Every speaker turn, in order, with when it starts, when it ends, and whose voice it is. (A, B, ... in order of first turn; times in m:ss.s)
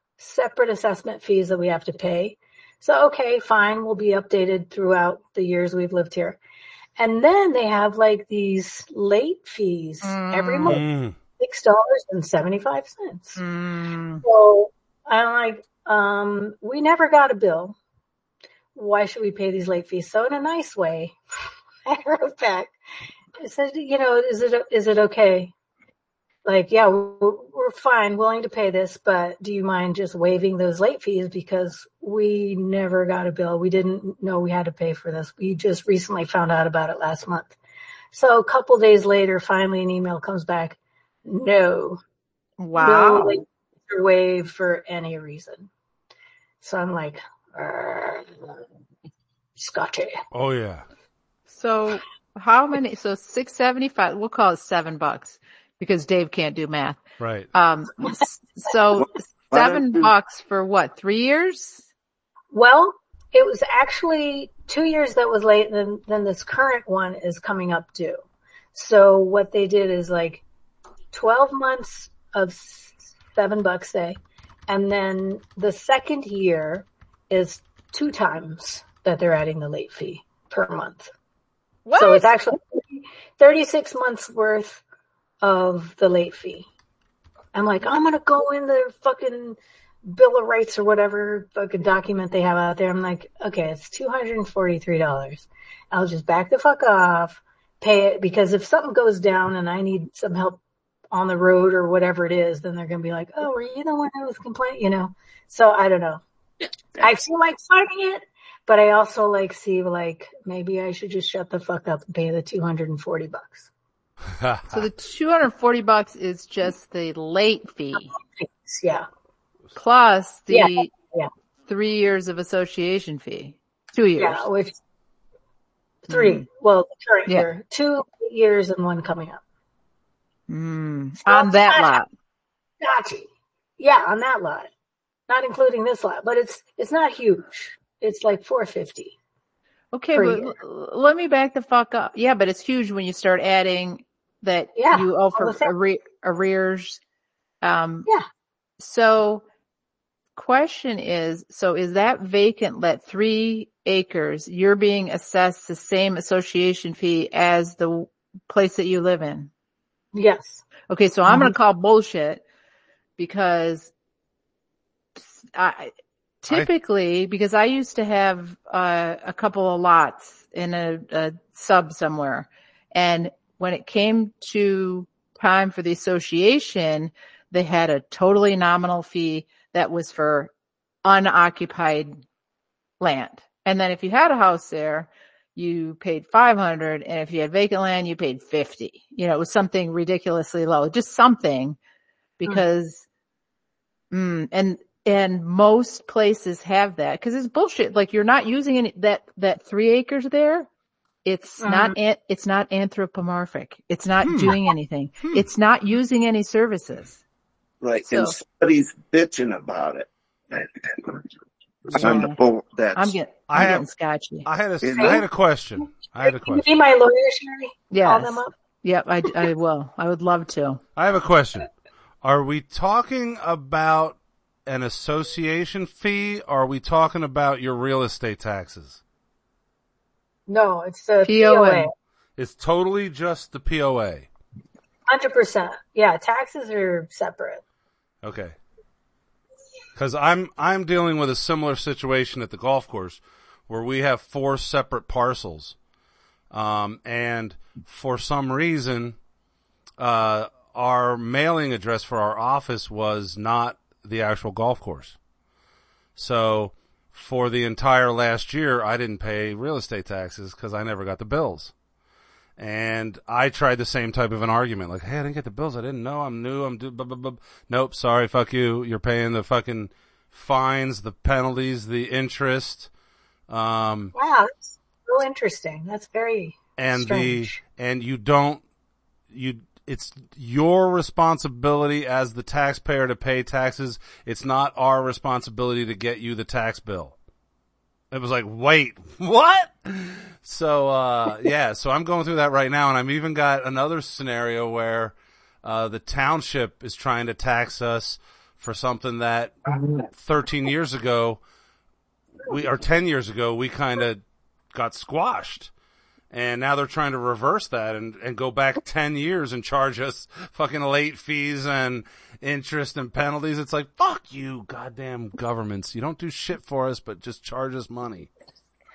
0:00.2-0:06.4 A
0:07.0-0:10.9 A
0:10.0-0:10.8 B
0:10.6-0:11.2 C
0:11.4-0:13.4 A
0:13.4-0:14.2 B
0:14.2-0:17.8 A
0:18.7-0:21.2 A
0:21.8-0:22.8 A
0:23.4-0:25.5 A
0:26.4-0:37.6 A
0:38.1-0:42.0 A
0:42.6-0:43.4 B
0:42.8-0:45.7 A
0:46.6-0:48.5 A
0:49.6-0:50.1 A
0:50.3-0:50.8 C
0:51.5-0:57.0 B
0:57.2-0:57.5 C
0:57.5-1:01.8 B
0:59.0-1:00.1 D
1:02.5-1:08.2 A
1:08.7-1:10.4 A
1:11.1-1:21.1 A
1:21.8-1:22.3 B
1:22.0-1:24.8 A
1:25.4-1:26.7 A
1:27.5-1:40.6 A
1:41.1-1:46.2 A
1:47.0-1:53.7 A
1:54.4-1:54.7 C
1:54.7-1:58.1 B
1:58.4-1:59.0 A
1:59.7-2:00.9 B
2:00.5-2:01.3 A
2:01.7-2:04.4 B
2:04.2-2:04.8 A
2:06.1-2:09.4 A
2:06.1-2:06.4 B
2:10.5-2:12.1 B
2:11.2-2:11.9 A
2:12.8-2:13.3 A
2:13.8-2:14.7 A
2:15.3-2:19.1 A
2:19.9-2:27.0 B
2:20.1-2:20.6 A
2:24.8-2:25.7 A
2:27.6-2:28.1 B
2:28.8-2:29.4 B
2:30.4-2:39.5 B
2:40.1-2:40.6 A
2:40.9-2:42.4 B
2:41.3-2:41.5 A
2:43.2-2:43.9 B
2:45.2-3:00.5 B
3:01.0-3:02.2 B
3:03.0-3:11.8 B
3:12.4-3:13.0 B
3:14.1-3:20.7 B
3:21.2-3:27.2 B
3:21.6-3:22.0 A
3:24.2-3:24.5 C
3:27.8-3:31.3 D
3:28.1-3:28.4 B
3:31.9-3:32.4 B
3:31.9-3:33.2 D
3:32.9-3:34.5 B
3:33.5-3:33.8 C
3:34.4-3:36.6 C
3:34.8-3:35.2 D
3:35.0-3:35.2 A
3:36.2-3:38.5 A
3:37.9-3:40.8 B
3:41.0-3:41.7 C
3:42.2-3:49.0 C
3:50.5-3:51.9 A
3:51.2-3:51.9 B
3:52.4-3:54.3 C
3:55.1-3:57.6 A
3:58.2-3:58.5 C
4:00.0-4:05.7 C
4:06.5-4:09.2 C
4:10.0-4:15.2 C
4:16.2-4:21.7 C
4:22.6-4:32.9 C
4:33.5-4:34.1 C
4:34.1-4:37.6 A
4:36.8-4:38.6 C
4:39.3-4:47.1 C
4:48.1-5:01.4 C
5:02.4-5:04.2 C
5:04.7-5:05.7 C
5:06.3-5:18.3 C